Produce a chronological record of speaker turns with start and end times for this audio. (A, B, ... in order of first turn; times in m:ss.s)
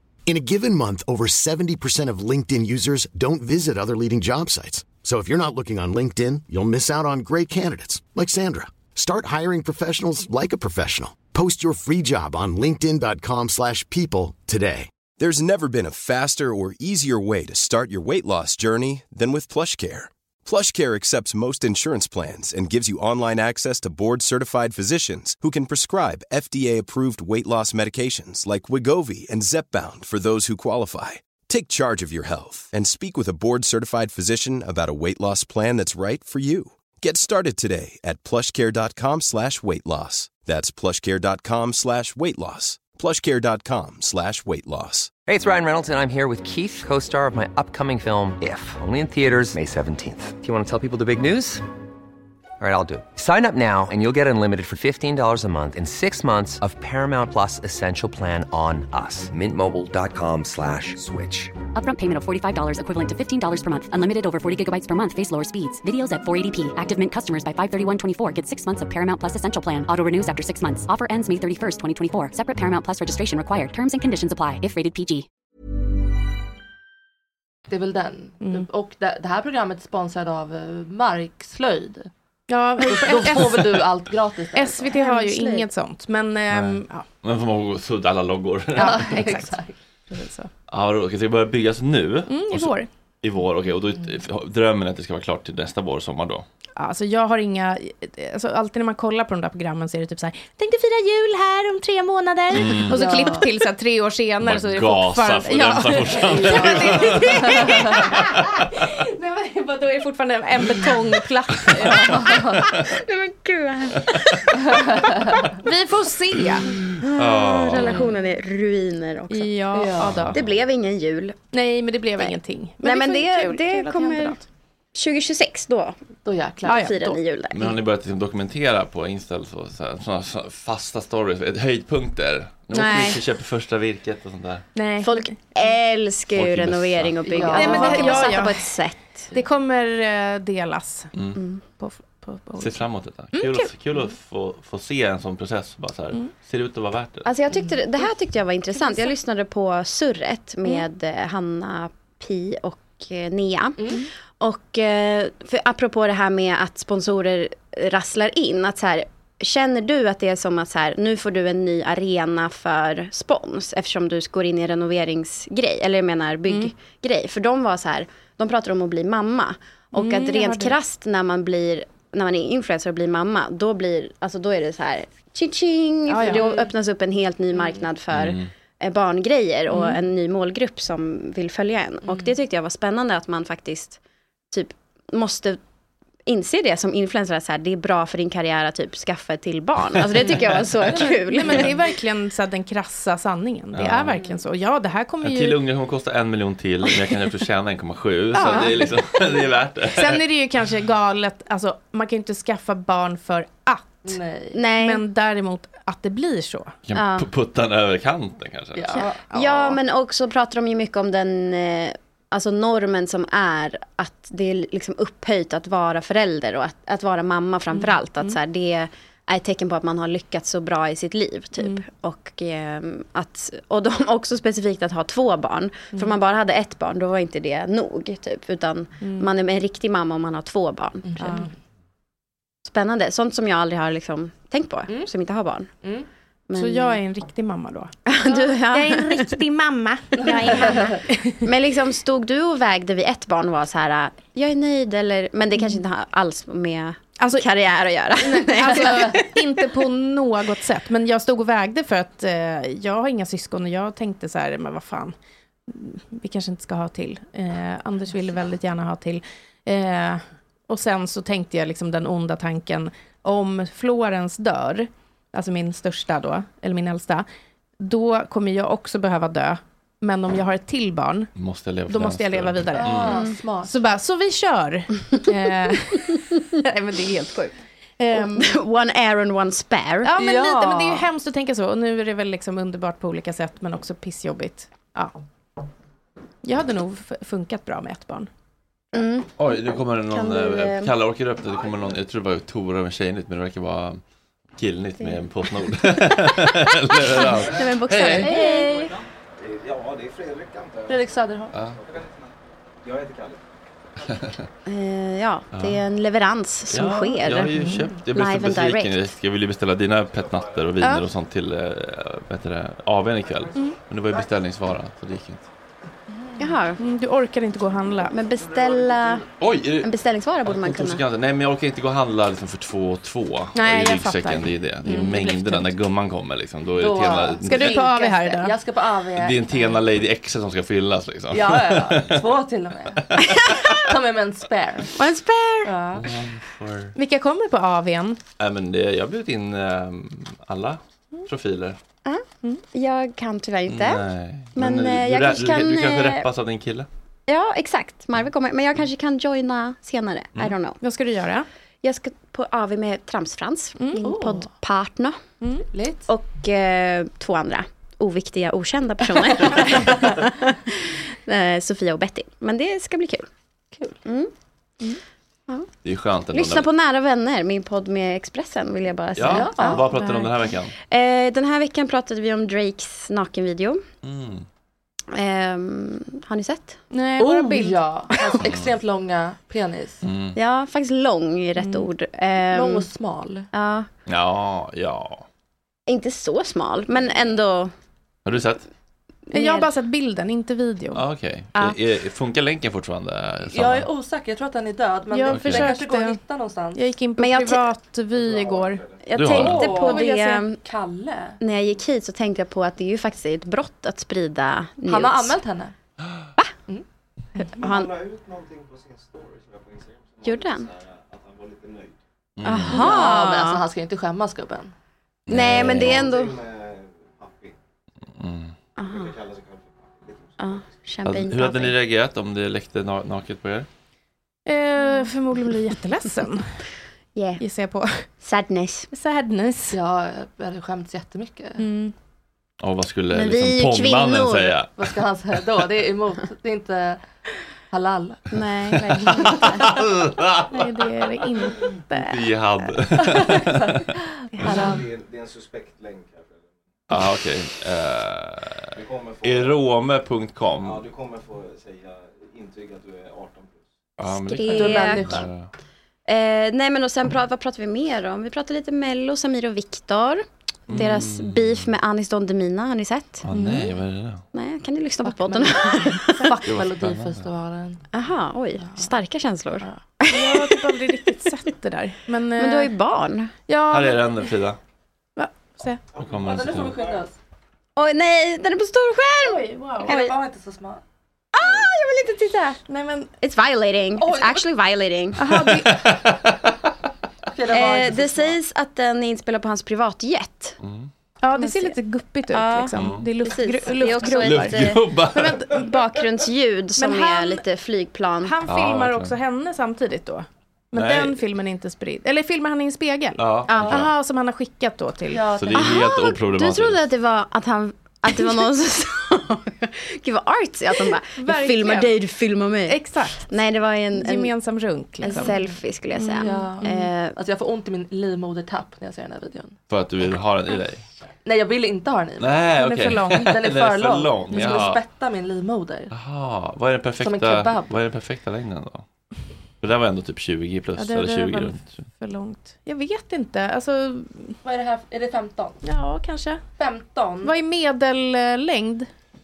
0:00.3-0:14.9 A
0:15.2-0:45.2 B
0:45.2-0:51.6 C
0:52.6-1:01.6 C
1:01.7-1:15.3 D
1:17.7-1:22.1 E
1:18.4-1:18.7 F
1:22.5-1:23.9 F
1:22.8-1:25.0 E
1:24.5-1:27.0 F
1:25.0-1:25.7 G
1:26.5-1:29.2 H
1:28.8-1:29.6 F
1:28.8-1:29.8 E
1:30.1-1:30.5 F
1:30.7-1:36.5 H
1:32.3-1:32.9 F
1:36.8-1:52.7 F
1:42.6-1:43.1 H
1:42.8-1:43.4 E
1:44.4-1:48.1 H
1:46.2-1:48.0 E
1:52.0-1:52.7 E
1:52.3-1:55.1 G
1:55.6-1:56.7 F
1:57.0-2:01.4 G
1:57.0-1:58.1 H
1:59.3-2:00.4 F
1:59.7-2:00.2 E
2:00.1-2:00.6 H
2:01.5-2:04.4 F
2:02.2-2:04.4 G
2:05.0-2:06.0 G
2:06.2-2:07.2 E
2:06.7-2:07.2 F
2:06.7-2:07.8 G
2:07.5-2:14.7 H
2:12.7-2:13.2 G
2:14.8-2:15.3 F
2:15.0-2:19.3 G
2:16.3-2:17.4 H
2:17.2-2:18.4 E
2:17.5-2:18.7 F
2:19.3-2:21.1 F
2:21.1-2:21.4 H
2:21.4-2:21.6 G
2:21.8-2:22.8 F
2:22.6-2:27.3 H
2:23.3-2:23.7 F
2:27.3-3:04.0 G
2:49.9-2:50.8 F
2:56.1-2:56.5 F
2:56.2-2:56.7 E
2:58.1-2:58.5 H
2:59.7-3:00.0 F
3:02.0-3:02.3 E
3:04.5-3:05.6 G
3:06.3-3:11.8 G
3:10.2-3:11.7 E
3:11.0-3:15.6 F
3:13.7-3:14.2 H
3:15.2-3:20.2 H
3:18.3-3:19.0 F
3:20.0-3:24.1 F
3:24.0-3:24.6 E
3:24.6-3:25.0 G
3:24.8-3:26.8 F
3:26.9-3:29.1 H
3:27.0-3:27.3 G
3:28.8-3:29.3 E
3:29.3-3:51.5 G
3:29.3-3:29.7 F
3:49.0-3:49.3 F
3:51.1-3:51.5 E
3:52.7-3:55.7 G
3:56.5-3:57.0 G
3:56.6-4:01.5 F
3:58.1-3:59.3 G
4:00.2-4:01.0 E
4:00.3-4:09.2 G
4:07.2-4:07.5 F
4:08.2-4:15.2 F
4:15.7-4:27.2 F
4:27.8-4:31.3 F
4:31.4-4:33.3 H
4:31.9-4:38.5 F
4:32.7-4:33.7 E
4:38.1-4:40.1 G
4:40.0-4:45.1 F
4:40.2-4:41.1 E
4:46.4-4:48.3 F
4:48.9-4:49.3 G
4:49.4-4:54.0 H
4:50.1-4:50.9 G
4:54.6-4:58.4 H
4:56.9-4:58.9 G
4:58.2-4:58.7 E
4:59.4-5:02.3 I
5:00.9-5:01.5 E
5:01.5-5:01.8 H
5:02.8-5:03.4 I
5:04.7-5:07.6 G
5:05.5-5:05.8 H
5:06.7-5:15.5 H
5:07.6-5:07.9 F
5:08.1-5:09.1 G
5:10.1-5:10.7 I
5:13.2-5:14.3 I
5:16.1-5:16.5 E
5:16.4-5:16.8 G
5:16.8-5:18.2 F
5:18.1-5:19.2 G
5:18.4-5:19.2 I
5:19.4-5:19.9 H
5:19.8-5:21.0 G
5:20.4-5:27.8 H
5:23.6-5:25.7 F
5:26.8-5:29.8 E
5:27.4-5:28.6 F
5:29.2-5:32.3 H
5:31.3-5:33.1 E
5:33.0-5:33.8 H
5:33.4-5:33.8 G
5:33.8-5:34.9 E
5:35.0-5:35.7 G
5:35.6-5:36.1 E
5:36.0-5:37.0 H
5:37.0-5:38.2 F
5:38.4-5:41.8 H
5:42.0-5:44.0 G
5:43.7-5:46.9 H
5:44.6-5:46.3 G
5:47.3-5:50.8 G
5:50.8-5:51.5 F
5:51.8-5:55.2 G
5:53.8-5:54.1 F
5:54.0-5:54.5 E
5:55.4-5:55.7 F
5:55.7-5:56.1 E
5:56.1-6:03.3 G
6:04.0-6:04.3 G
6:05.8-6:06.7 H
6:06.3-6:09.8 G
6:09.2-6:10.7 H
6:09.3-6:09.8 E
6:09.6-6:10.3 F
6:10.9-6:13.8 G
6:14.0-6:14.4 H
6:15.1-6:16.8 G
6:16.9-6:17.8 F
6:17.2-6:20.0 E
6:18.2-6:18.4 G
6:18.4-6:18.7 H
6:20.0-6:20.4 H
6:20.4-6:22.9 G
6:21.6-6:21.8 F
6:22.5-6:23.5 E
6:23.5-6:23.9 G
6:24.1-6:25.2 H
6:25.9-6:27.7 G
6:28.3-6:28.7 H
6:29.3-6:29.7 G
6:29.3-6:31.0 F
6:30.9-6:33.9 H
6:33.5-6:36.8 E
6:35.1-6:36.2 F
6:35.3-6:35.7 H
6:36.7-6:38.8 F
6:37.2-6:37.7 G
6:38.1-6:39.0 I
6:39.1-6:40.6 G
6:39.2-6:39.8 H
6:39.3-6:41.4 E
6:39.8-6:40.4 F
6:41.4-6:45.4 G
6:44.9-6:45.8 E
6:47.5-6:52.0 I
6:47.6-6:47.9 G
6:50.2-6:50.7 G
6:52.4-6:53.0 H
6:52.4-6:53.6 G
6:52.6-6:54.7 E
6:55.3-6:56.0 H
6:55.3-6:56.4 G
6:55.4-6:57.6 I
6:58.2-6:58.5 H
6:58.8-6:59.1 G
6:58.8-7:00.8 I
7:00.4-7:01.8 G
7:01.0-7:03.7 H
7:04.5-7:06.5 F
7:07.2-7:07.4 G
7:07.4-7:08.0 F
7:08.2-7:08.9 G
7:08.9-7:09.8 F
7:09.7-7:11.6 E
7:11.6-7:11.9 F
7:12.6-7:14.7 H
7:13.1-7:14.6 G
7:14.8-7:17.0 E
7:17.7-7:18.2 E
7:18.3-7:19.8 G
7:19.1-7:20.7 H
7:20.5-7:22.2 F
7:21.9-7:23.9 H
7:23.2-7:23.5 E
7:24.3-7:24.7 F
7:24.4-7:24.8 E
7:24.4-7:26.5 I
7:26.9-7:30.8 H
7:28.7-7:29.6 I
7:30.6-7:33.7 I
7:34.0-7:35.5 H
7:34.1-7:35.3 G
7:34.5-7:35.3 E
7:36.1-7:43.3 G
7:40.7-7:41.7 H
7:43.2-7:44.2 H
7:43.3-7:43.7 F
7:44.3-7:46.3 G
7:45.0-7:47.8 E
7:46.5-7:47.2 H
7:47.9-7:50.9 G
7:48.6-7:48.9 E
7:50.1-7:52.7 F
7:52.4-7:53.3 G
7:53.5-7:54.0 F
7:53.7-7:54.6 H
7:55.2-7:55.8 F
7:56.0-7:57.0 I
7:56.0-7:56.8 H
7:56.2-7:57.2 E
7:57.8-8:00.2 G
7:59.2-8:00.0 F
7:59.8-8:00.8 E
8:01.3-8:02.6 G
8:02.6-8:03.1 F
8:03.2-8:05.4 G
8:04.0-8:04.4 E
8:05.2-8:05.8 F
8:05.6-8:06.4 H
8:07.3-8:08.4 E
8:07.5-8:10.6 G
8:10.6-8:10.9 H
8:11.2-8:15.8 F
8:11.4-8:11.8 G
8:12.3-8:14.9 G
8:12.8-8:13.1 H
8:14.2-8:15.5 H
8:15.5-8:18.4 G
8:16.8-8:17.4 F
8:18.2-8:25.3 F
8:18.5-8:19.1 H
8:20.7-8:21.2 H
8:23.2-8:23.9 H
8:23.5-8:23.8 G
8:25.1-8:25.8 E
8:25.3-8:26.8 H
8:25.5-8:34.3 G
8:31.2-8:31.9 F
8:32.7-8:33.3 F
8:33.9-8:35.4 F
8:35.0-8:37.2 G
8:35.1-8:35.4 E
8:36.0-8:36.9 F
8:36.2-8:39.6 E
8:39.7-8:40.8 H
8:41.2-8:42.5 E
8:42.2-8:44.8 H
8:42.6-8:43.3 F
8:43.2-8:45.9 E
8:45.9-8:48.8 H
8:47.0-8:47.7 E
8:49.6-8:51.8 H
8:50.8-8:54.4 F
8:54.4-8:55.6 E
8:55.6-8:56.4 F
8:56.6-8:57.4 E
8:57.2-8:58.9 F